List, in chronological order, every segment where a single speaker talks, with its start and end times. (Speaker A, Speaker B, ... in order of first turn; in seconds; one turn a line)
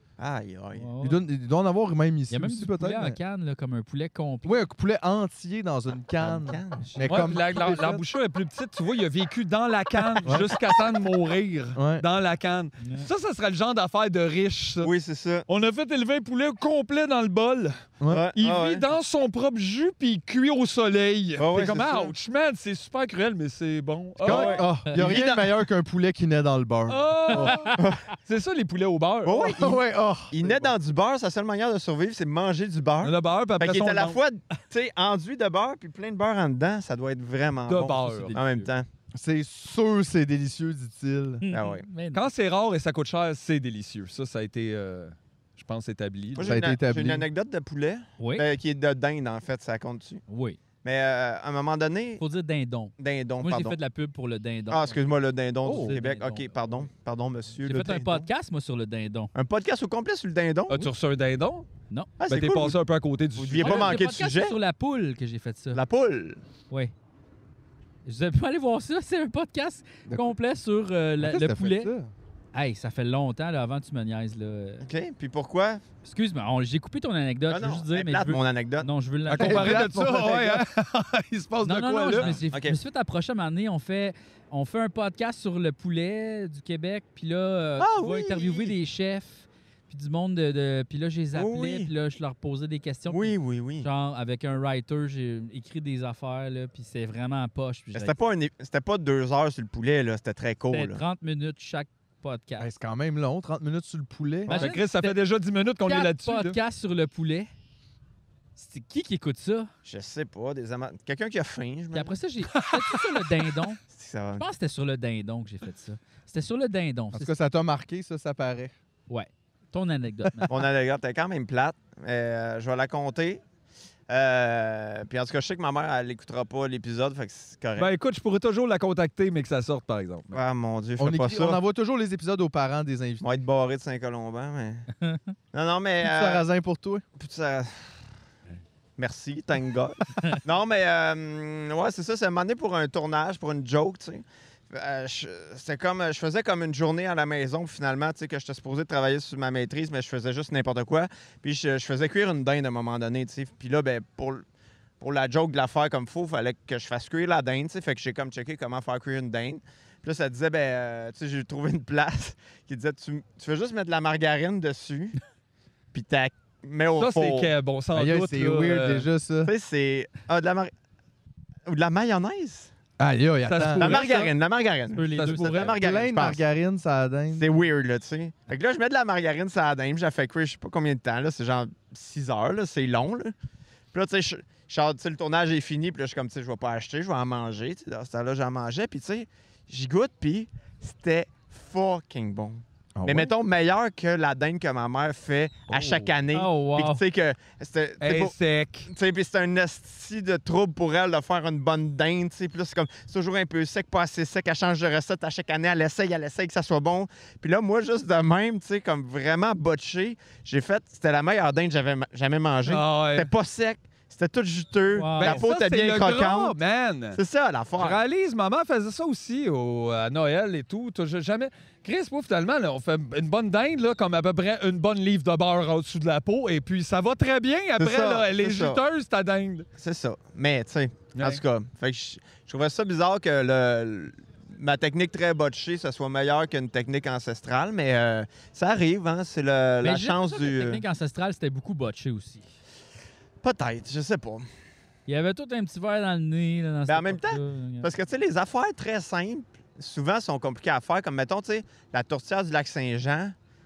Speaker A: 0.2-0.9
Speaker B: 0.8-1.2
Speaker C: 1.0-3.2
Speaker B: 2.3-4.6
Speaker C: 4.4-8.0
Speaker A: 6.2-6.9
Speaker B: 6.8-7.7
Speaker D: 7.0-14.9
Speaker C: 10.2-10.5
Speaker C: 11.7-12.0
Speaker B: 12.8-13.1
Speaker A: 14.8-15.4
Speaker D: 15.5-17.7
Speaker C: 18.0-18.3
Speaker A: 18.1-18.8
Speaker D: 18.3-24.6
Speaker A: 21.4-22.1
Speaker C: 24.2-27.6
Speaker A: 24.2-25.6
Speaker D: 26.9-27.7
Speaker B: 27.3-27.8
Speaker D: 28.2-29.6
Speaker A: 29.2-38.9
Speaker C: 29.4-30.7
Speaker D: 33.0-34.2
Speaker D: 37.7-38.5
Speaker B: 38.2-38.7
Speaker C: 39.1-41.4
Speaker B: 41.4-42.3
Speaker A: 41.5-41.8
Speaker D: 42.1-46.6
Speaker A: 46.3-50.2
Speaker C: 46.4-47.3
Speaker B: 48.2-48.5
Speaker B: 50.3-50.6
Speaker A: 50.8-52.2
Speaker B: 52.2-55.0
Speaker A: 53.0-53.8
Speaker A: 54.7-58.3
Speaker B: 55.6-56.9
Speaker B: 57.6-59.3
Speaker A: 59.3-60.8
Speaker D: 60.7-61.6
Speaker A: 62.2-62.8
Speaker D: 62.3-64.0
Speaker A: 63.4-64.5
Speaker B: 63.6-65.8
Speaker A: 65.7-66.4
Speaker B: 68.0-71.9
Speaker C: 70.1-70.3
Speaker C: 71.2-72.1
Speaker B: 72.5-74.9
Speaker A: 74.8-75.8
Speaker B: 76.0-79.9
Speaker A: 77.5-78.9
Speaker D: 79.3-82.3
Speaker C: 79.3-80.7
Speaker B: 81.6-98.2
Speaker A: 82.5-82.8
Speaker A: 87.8-88.7
Speaker A: 91.3-91.9
Speaker A: 93.1-93.9
Speaker A: 97.9-101.0
Speaker B: 100.7-102.7
Speaker C: 102.6-104.6
Speaker A: 104.5-104.7
Speaker B: 104.5-105.2
Speaker D: 104.5-106.6
Speaker B: 105.8-107.5
Speaker B: 108.6-109.7
Speaker A: 109.8-112.1
Speaker B: 111.9-113.8
Speaker A: 113.9-114.5
Speaker B: 114.4-117.3
Speaker C: 117.1-118.7
Speaker B: 119.1-120.5
Speaker A: 120.5-123.4
Speaker A: 124.1-127.9
Speaker D: 127.8-130.4
Speaker A: 130.3-131.6
Speaker C: 131.0-133.2
Speaker A: 133.2-134.9
Speaker B: 135.0-135.3
Speaker A: 135.5-136.4
Speaker C: 136.0-137.0
Speaker A: 137.2-137.8
Speaker A: 139.0-154.4
Speaker A: 155.0-165.2
Speaker A: 165.9-167.5
Speaker D: 166.9-169.1
Speaker C: 167.9-169.5
Speaker A: 169.4-170.7
Speaker A: 171.7-172.7
Speaker C: 173.0-174.0
Speaker D: 173.4-174.3
Speaker A: 173.8-176.4
Speaker B: 174.9-175.8
Speaker D: 175.2-175.7
Speaker C: 175.6-177.4
Speaker A: 177.3-183.3
Speaker A: 183.9-198.3
Speaker C: 192.9-193.3
Speaker B: 196.3-197.0
Speaker D: 198.0-198.9
Speaker A: 198.9-216.6
Speaker D: 212.7-213.3
Speaker B: 214.9-215.4
Speaker D: 215.2-217.2
Speaker A: 217.1-218.0
Speaker D: 217.8-229.7
Speaker A: 227.8-228.8
Speaker A: 229.8-240.8
Speaker D: 231.1-231.4
Speaker B: 239.8-242.4
Speaker A: 243.4-244.5
Speaker B: 245.1-247.9
Speaker A: 246.9-253.3